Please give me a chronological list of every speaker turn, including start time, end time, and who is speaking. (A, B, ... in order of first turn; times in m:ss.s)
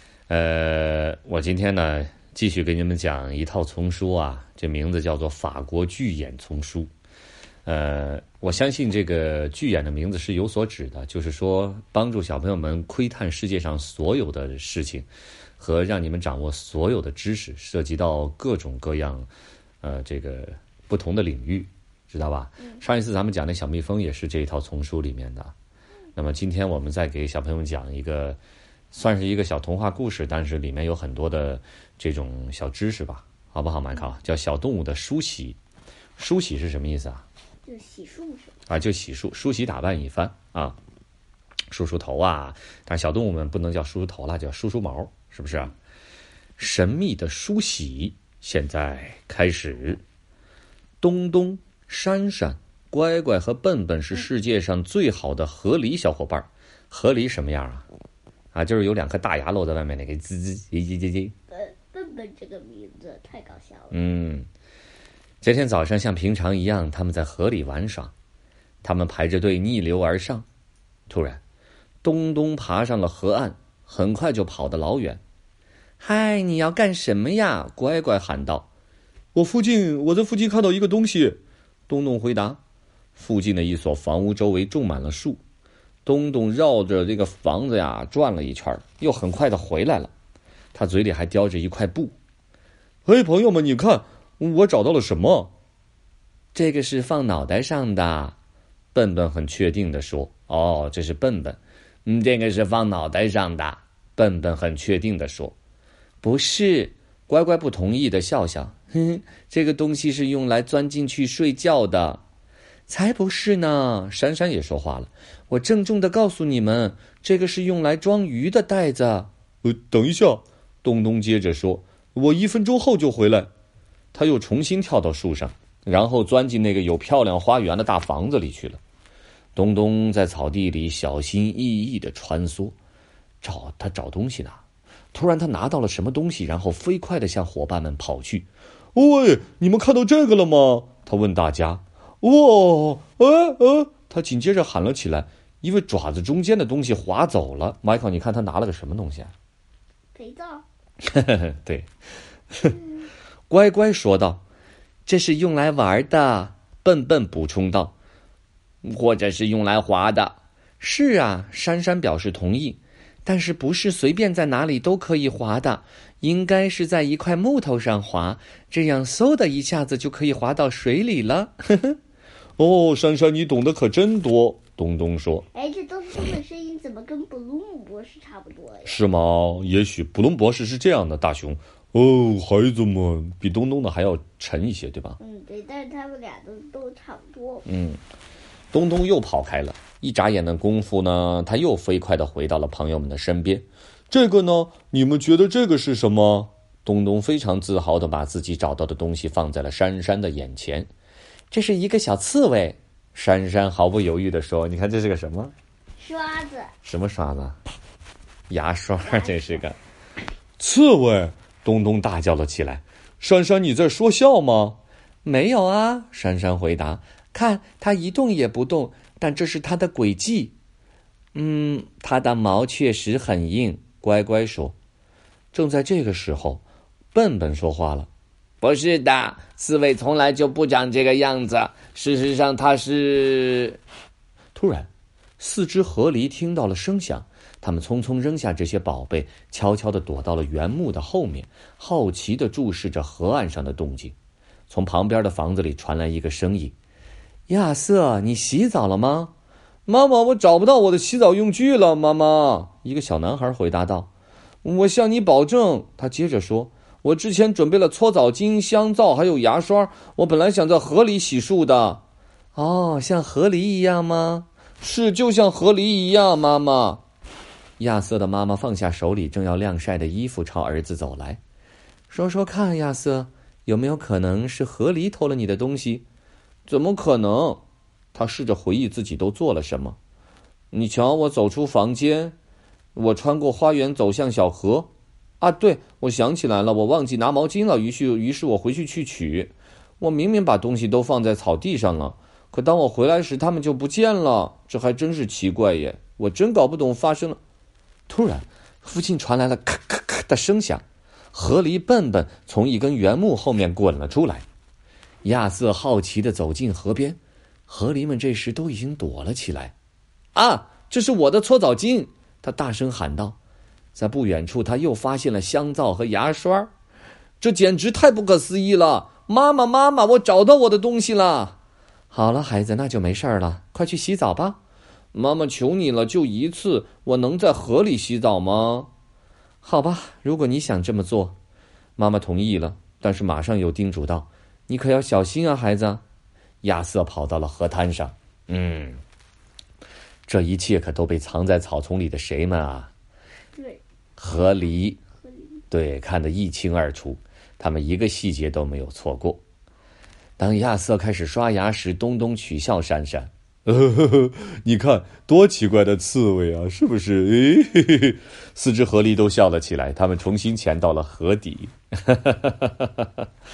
0:00.3-0:06.9 A
0:07.7-0:19.3 A
0:19.8-0:25.5 A
0:26.2-0:28.4 A
0:28.9-0:35.6 A
0:36.2-0:37.2 A
0:37.7-0:38.6 B
0:38.7-0:40.8 A
0:41.7-0:45.7 A
0:46.6-0:50.0 A
0:51.0-0:57.9 A
0:58.5-1:01.4 A
1:01.5-1:04.0 B
1:03.9-1:04.5 A
1:05.4-1:08.1 A
1:08.8-1:10.5 A
1:11.1-1:11.4 A
1:12.0-1:15.2 A
1:16.0-1:18.7 A
1:19.3-1:22.6 A
1:23.2-1:25.4 A
1:26.0-1:30.1 A
1:30.7-1:32.2 A
1:33.1-1:35.5 A
1:36.5-1:38.4 A
1:38.9-1:45.6 A
1:46.2-1:52.2 A
1:52.9-2:03.5 A
2:04.1-2:08.8 A
2:09.6-2:12.8 A
2:13.4-2:14.6 A
2:15.1-2:29.3 A
2:30.1-2:30.6 B
2:31.0-2:31.9 A
2:32.5-2:32.8 A
2:33.5-2:34.4 A
2:35.1-2:37.9 A
2:38.8-2:52.0 A
2:52.6-2:55.5 A
2:55.5-2:59.0 B
2:58.9-3:05.2 A
3:05.2-3:07.7 B
3:07.7-3:08.0 A
3:08.7-3:20.9 A
3:21.5-3:25.5 A
3:26.0-3:26.7 B
3:26.8-3:27.6 A
3:28.5-3:29.8 A
3:29.0-3:29.4 B
3:30.6-3:40.6 A
3:41.4-3:44.8 A
3:45.5-3:48.1 A
3:48.6-3:53.8 A
3:54.6-4:04.2 A
4:04.7-4:06.8 A
4:07.5-4:09.3 A
4:09.9-4:14.1 A
4:14.6-4:22.0 A
4:22.6-4:27.0 A
4:27.8-4:31.4 A
4:32.1-4:36.0 A
4:36.7-4:37.6 A
4:38.1-4:40.0 A
4:40.7-4:42.4 A
4:43.0-4:57.4 A
4:58.1-5:04.4 A
5:05.2-5:09.7 A
5:10.4-5:13.4 A
5:14.0-5:16.7 A
5:17.4-5:21.6 A
5:22.1-5:24.6 A
5:25.1-5:28.9 A
5:29.6-5:31.4 A
5:32.0-5:36.0 A
5:36.6-5:39.0 A
5:40.3-5:42.9 A
5:43.6-5:43.8 B
5:44.2-5:45.0 A
5:45.2-5:45.6 B
5:45.7-5:49.4 A
5:50.4-6:03.2 A